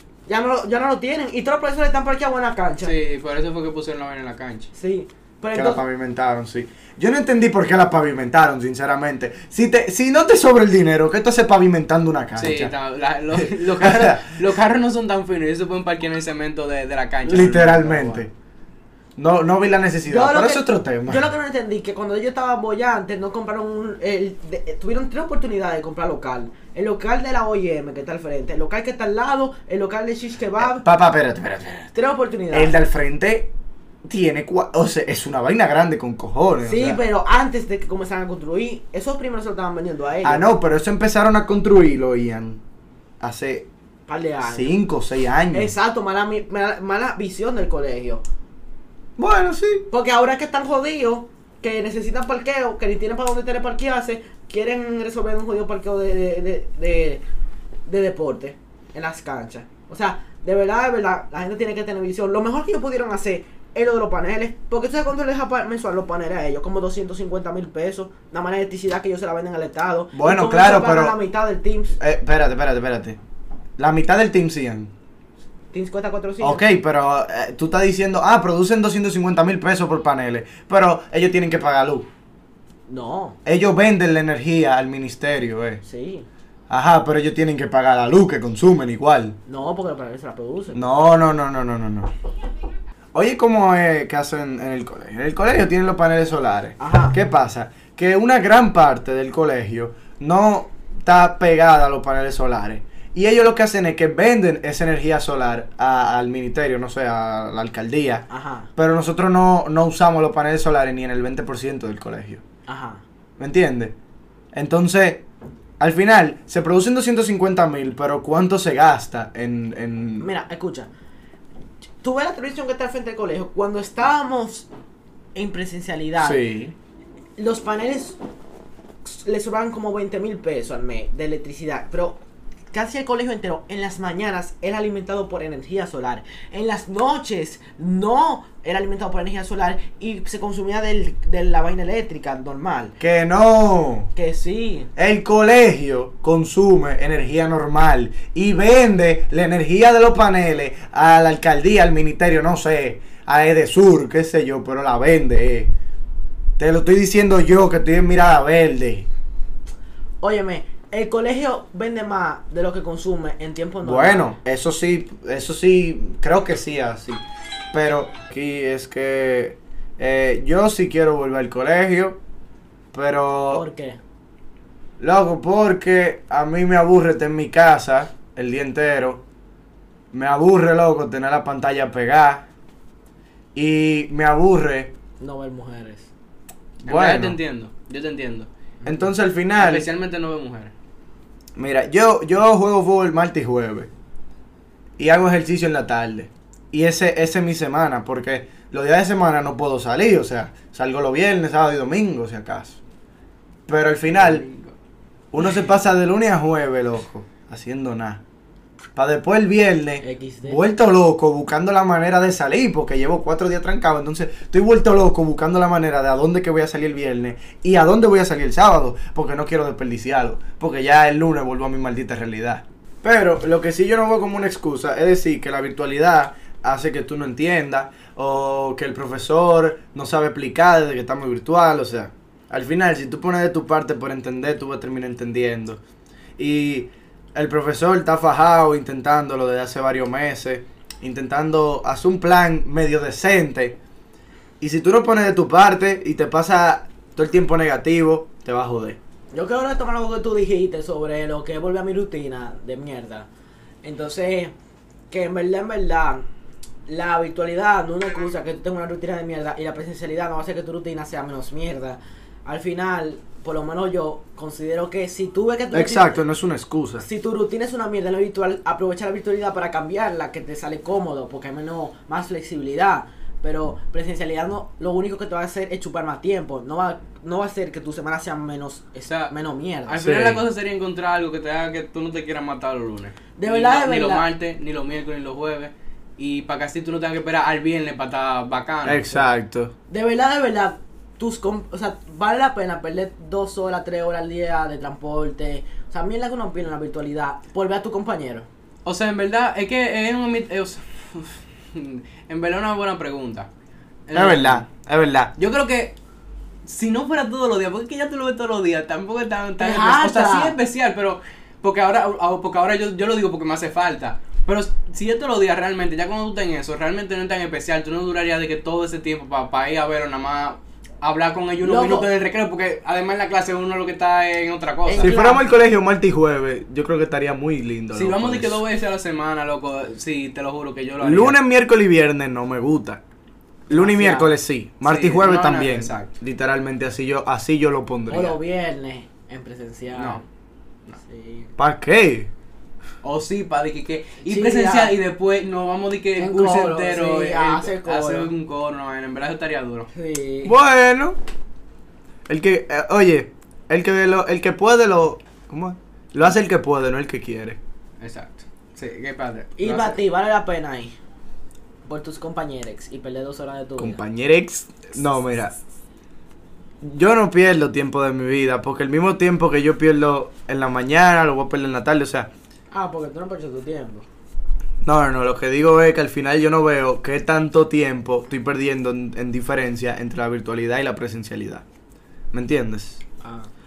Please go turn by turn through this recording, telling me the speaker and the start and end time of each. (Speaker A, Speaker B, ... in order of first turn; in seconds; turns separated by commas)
Speaker A: 0.3-2.9, Speaker B: 2.8-4.7, Speaker A: 4.7-5.8, Speaker C: 5.5-12.7, Speaker B: 12.4-18.2, Speaker C: 13.3-14.3, Speaker C: 17.2-18.3, Speaker A: 17.6-18.1, Speaker C: 19.2-21.3, Speaker A: 20.1-30.9, Speaker C: 30.6-31.9, Speaker A: 31.9-32.7, Speaker C: 32.5-33.5, Speaker C: 34.0-37.0, Speaker A: 36.6-40.5, Speaker C: 40.2-42.6, Speaker C: 43.2-43.7, Speaker A: 44.1-44.8, Speaker C: 44.4-45.7, Speaker A: 45.5-48.2, Speaker C: 49.2-49.9, Speaker A: 49.9-57.2, Speaker A: 57.9-72.0, Speaker C: 70.1-71.2, Speaker C: 72.0-73.2, Speaker C: 73.8-74.9, Speaker A: 75.7-76.6, Speaker C: 76.4-82.1, Speaker A: 82.9-83.4, Speaker C: 83.5-85.8, Speaker A: 85.8-86.3, Speaker C: 86.7-89.3, Speaker A: 89.5-90.8, Speaker C: 90.7-92.1, Speaker C: 93.1-112.4, Speaker A: 96.8-97.2, Speaker A: 108.3-108.7, Speaker A: 112.7-113.0, Speaker C: 113.4-113.9, Speaker C: 114.5-115.2, Speaker C: 115.8-120.3, Speaker A: 120.2-120.9, Speaker A: 122.0-124.7, Speaker A: 125.3-126.4, Speaker C: 126.2-126.7, Speaker A: 127.4-128.2, Speaker A: 129.0-132.2, Speaker A: 132.7-142.9, Speaker C: 143.0-144.1, Speaker A: 144.2-144.9, Speaker C: 144.9-155.7, Speaker C: 156.6-159.1, Speaker A: 160.2-164.3, Speaker C: 163.8-172.2, Speaker C: 172.9-173.6, Speaker A: 173.5-174.0, Speaker C: 175.0-179.2, Speaker C: 180.1-182.5, Speaker C: 183.5-184.9, Speaker A: 185.2-186.1, Speaker C: 186.8-187.4, Speaker B: 186.9-188.5, Speaker C: 188.8-189.9, Speaker B: 189.6-190.7, Speaker C: 191.6-193.9, Speaker C: 195.0-202.8, Speaker C: 203.7-204.4, Speaker B: 204.1-204.7, Speaker C: 205.3-208.2, Speaker C: 208.9-235.8, Speaker A: 210.0-210.6, Speaker C: 236.4-243.8, Speaker C: 244.6-249.0, Speaker A: 249.3-253.3, Speaker A: 253.8-254.5, Speaker A: 255.1-256.2, Speaker A: 256.9-266.2, Speaker C: 265.7-267.0, Speaker A: 267.0-280.0, Speaker B: 279.1-279.3, Speaker B: 279.9-289.2, Speaker C: 280.0-280.4, Speaker A: 283.4-284.3, Speaker C: 288.8-289.7, Speaker A: 289.9-298.5, Speaker B: 298.8-303.5, Speaker B: 304.1-304.6, Speaker C: 304.1-305.3, Speaker B: 305.4-305.9, Speaker B: 306.6-325.1, Speaker A: 309.6-310.5, Speaker A: 321.6-322.1, Speaker A: 324.9-325.4, Speaker C: 325.0-328.6, Speaker B: 327.9-331.4, Speaker C: 331.0-333.0, Speaker A: 333.7-334.3, Speaker C: 333.7-338.4, Speaker B: 334.8-336.1, Speaker A: 338.1-340.2, Speaker B: 339.9-340.2, Speaker A: 341.0-341.5, Speaker C: 341.6-342.3, Speaker B: 343.0-349.9, Speaker A: 344.2-344.9, Speaker A: 346.2-348.3, Speaker A: 349.9-350.5, Speaker C: 350.4-351.2, Speaker C: 352.3-357.6, Speaker B: 358.0-360.0, Speaker A: 359.6-360.9, Speaker A: 361.8-364.0, Speaker C: 363.8-365.5, Speaker C: 366.8-372.3, Speaker A: 372.7-374.1, Speaker C: 374.8-381.6, Speaker C: 382.3-383.0, Speaker A: 383.2-383.5